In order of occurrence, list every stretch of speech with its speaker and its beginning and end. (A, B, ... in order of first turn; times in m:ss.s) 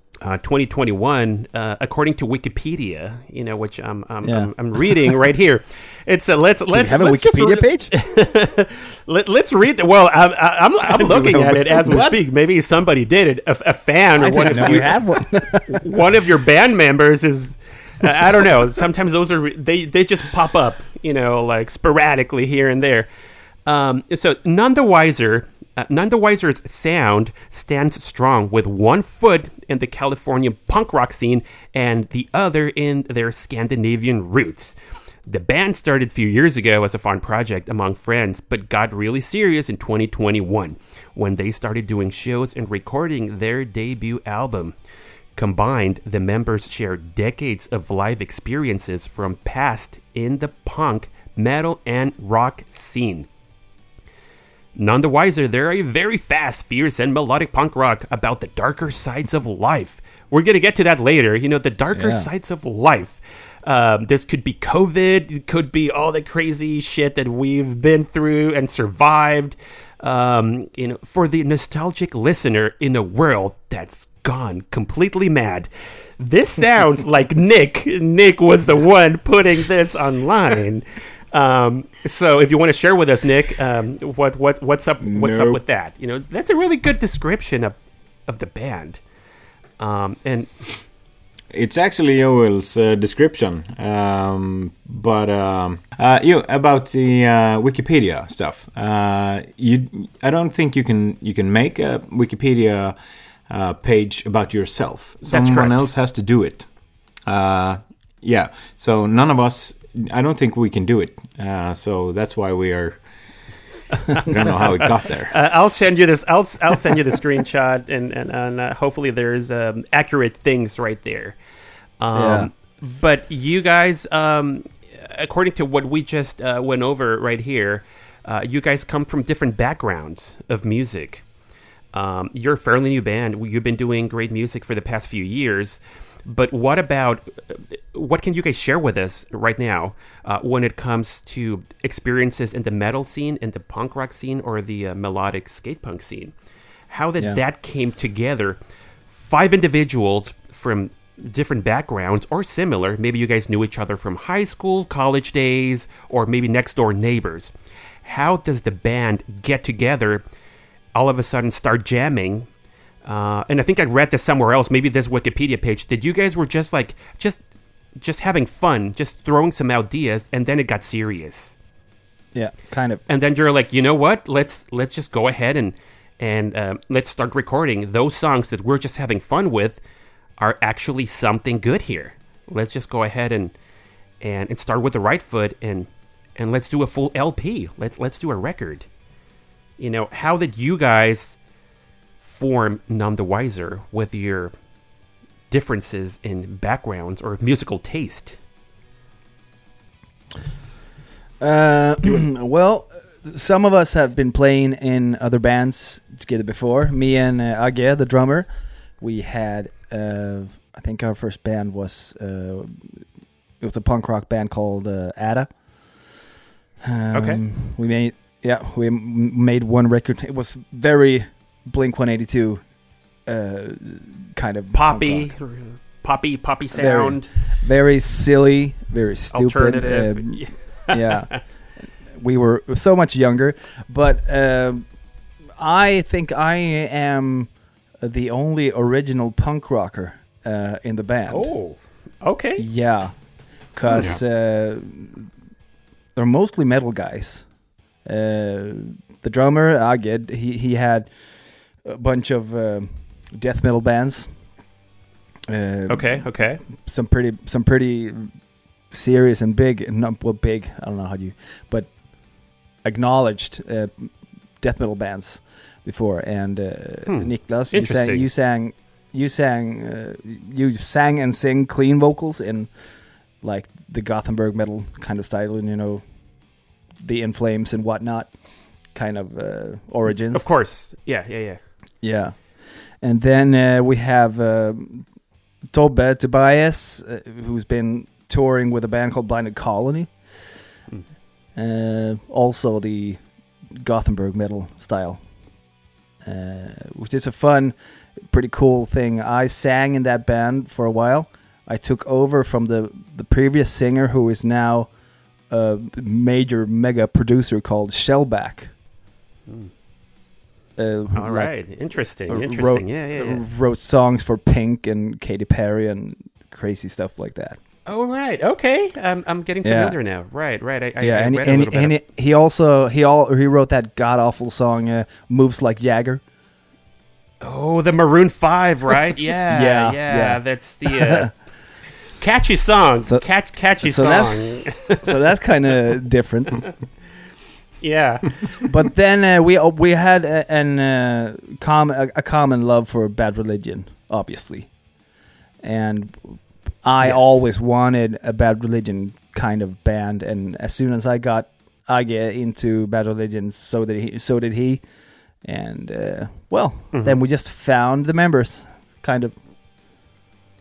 0:00.2-0:15.0 A
0:04.2-0:05.1 B
0:06.7-0:07.9 B
0:11.1-0:11.8 C
0:11.4-0:12.2 B
0:14.2-0:16.0 B
0:15.6-0:23.1 A
0:23.7-0:34.8 A
0:35.3-0:44.8 A
0:45.4-0:53.3 A
0:54.8-1:27.8 A
1:01.9-1:02.3 B
1:25.0-1:25.6 C
1:28.3-1:29.0 A
1:29.8-1:30.7 A
1:31.5-1:43.0 C
1:43.5-1:46.7 C
1:45.2-1:45.9 A
1:47.3-1:53.0 C
1:54.1-2:01.4 A
1:54.2-1:55.4 C
2:02.0-2:11.2 A
2:02.2-2:02.5 B
2:11.9-2:26.3 A
2:26.9-2:28.6 A
2:29.1-2:40.2 A
2:41.0-2:42.5 A
2:43.0-2:47.4 A
2:48.0-2:51.6 A
2:52.3-2:53.0 B
2:53.1-2:59.8 A
3:00.4-3:03.5 A
3:04.2-3:08.9 A
3:09.8-3:11.4 A
3:12.2-3:14.5 A
3:15.5-3:18.4 A
3:21.4-3:28.5 B
3:29.0-3:33.0 B
3:33.6-3:35.5 B
3:36.8-3:42.6 B
3:37.1-3:37.4 A
3:43.3-3:45.3 B
3:44.7-3:47.3 A
3:46.7-3:51.4 B
3:49.3-3:51.4 A
3:52.1-3:54.8 B
3:55.6-3:57.5 B
3:58.0-4:01.5 B
4:01.3-4:02.6 A
4:02.6-4:03.1 B
4:03.7-4:05.3 B
4:06.2-4:07.5 B
4:08.0-4:11.1 B
4:11.8-4:14.3 B
4:15.5-4:18.3 B
4:15.9-4:16.6 A
4:18.9-4:21.9 B
4:22.8-4:32.7 B
4:27.1-4:28.3 A
4:33.4-4:36.0 B
4:37.0-4:38.3 B
4:38.9-4:40.5 B
4:40.3-4:41.6 A
4:42.0-4:42.4 B
4:43.0-4:45.1 B
4:45.7-4:50.1 B
4:51.6-4:53.2 B
4:53.8-4:55.2 B
4:56.2-5:04.9 B
5:05.5-5:08.7 B
5:09.5-5:09.7 A
5:10.8-5:11.5 B
5:11.1-5:13.4 A
5:12.3-5:17.6 B
5:17.9-5:22.0 A
5:19.6-5:20.0 B
5:21.0-5:26.2 B
5:27.4-5:31.3 A
5:29.5-5:31.3 B
5:32.2-5:35.2 A
5:33.8-5:36.7 B
5:37.8-5:38.4 A
5:38.6-5:44.7 B
5:45.6-5:54.8 B
5:47.0-5:47.4 A
5:55.4-5:59.4 B
5:56.9-5:57.2 A